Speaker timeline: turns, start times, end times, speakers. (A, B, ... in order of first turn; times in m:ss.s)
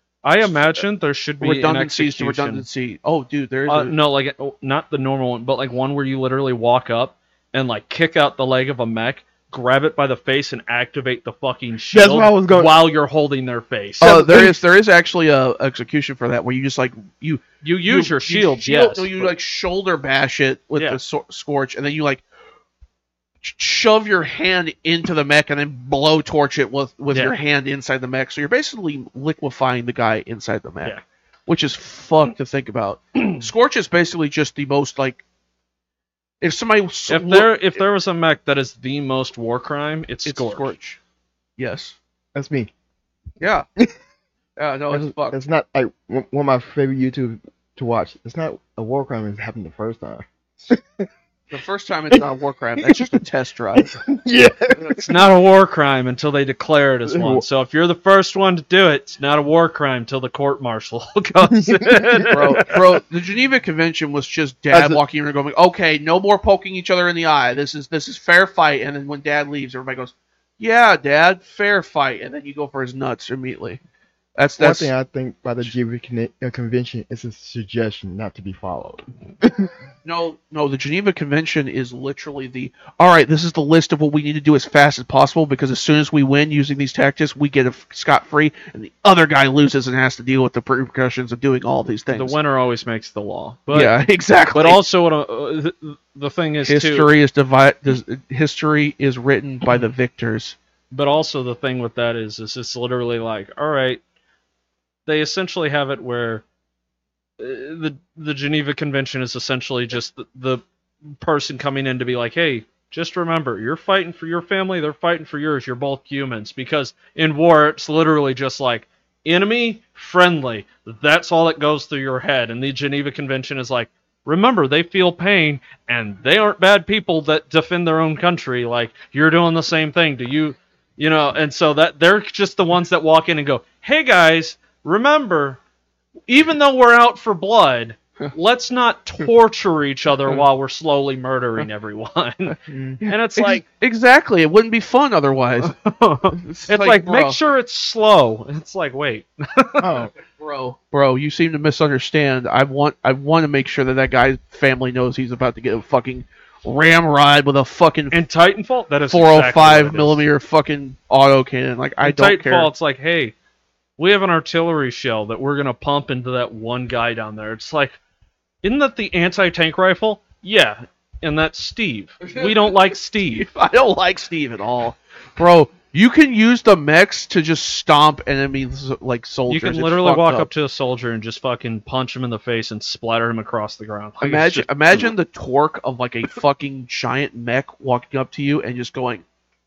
0:00.2-0:02.6 A
0:00.4-0:00.8 B
0:01.4-0:04.0 B
0:03.7-0:14.5 A
0:11.9-0:12.8 C
0:14.0-0:22.2 B
0:14.0-0:14.5 C
0:17.6-0:19.3 A
0:23.4-0:31.0 B
0:31.5-0:35.2 B
0:33.2-0:33.4 A
0:36.4-0:37.8 B
0:37.1-0:40.7 A
0:40.3-0:41.0 B
0:41.6-0:42.0 B
0:42.4-0:42.7 C
0:43.4-0:43.6 B
0:44.6-0:45.4 B
0:44.9-0:51.1 C
0:51.5-0:53.9 B
0:52.8-0:53.2 C
0:53.8-0:55.2 C
0:54.9-1:02.8 A
0:57.1-0:57.4 C
1:01.5-1:02.8 C
1:02.3-1:13.8 B
1:04.7-1:05.0 C
1:14.4-1:14.9 B
1:14.6-1:19.7 C
1:20.0-1:32.4 B
1:32.1-1:33.9 A
1:33.7-1:34.8 B
1:34.5-1:37.1 A
1:36.6-1:40.6 B
1:40.9-1:44.0 A
1:45.1-1:46.4 A
1:47.4-1:50.6 A
1:51.2-2:15.6 A
2:16.3-2:23.6 A
2:22.7-2:23.0 C
2:23.0-2:25.8 B
2:25.6-2:30.0 A
2:26.3-2:27.4 B
2:29.8-2:30.1 C
2:30.4-2:38.2 B
2:38.1-2:40.2 A
2:39.1-2:42.7 B
2:42.0-2:43.4 A
2:44.0-2:48.0 A
2:48.6-2:53.5 A
2:52.2-3:00.5 B
2:59.5-3:05.1 A
3:04.2-3:09.2 B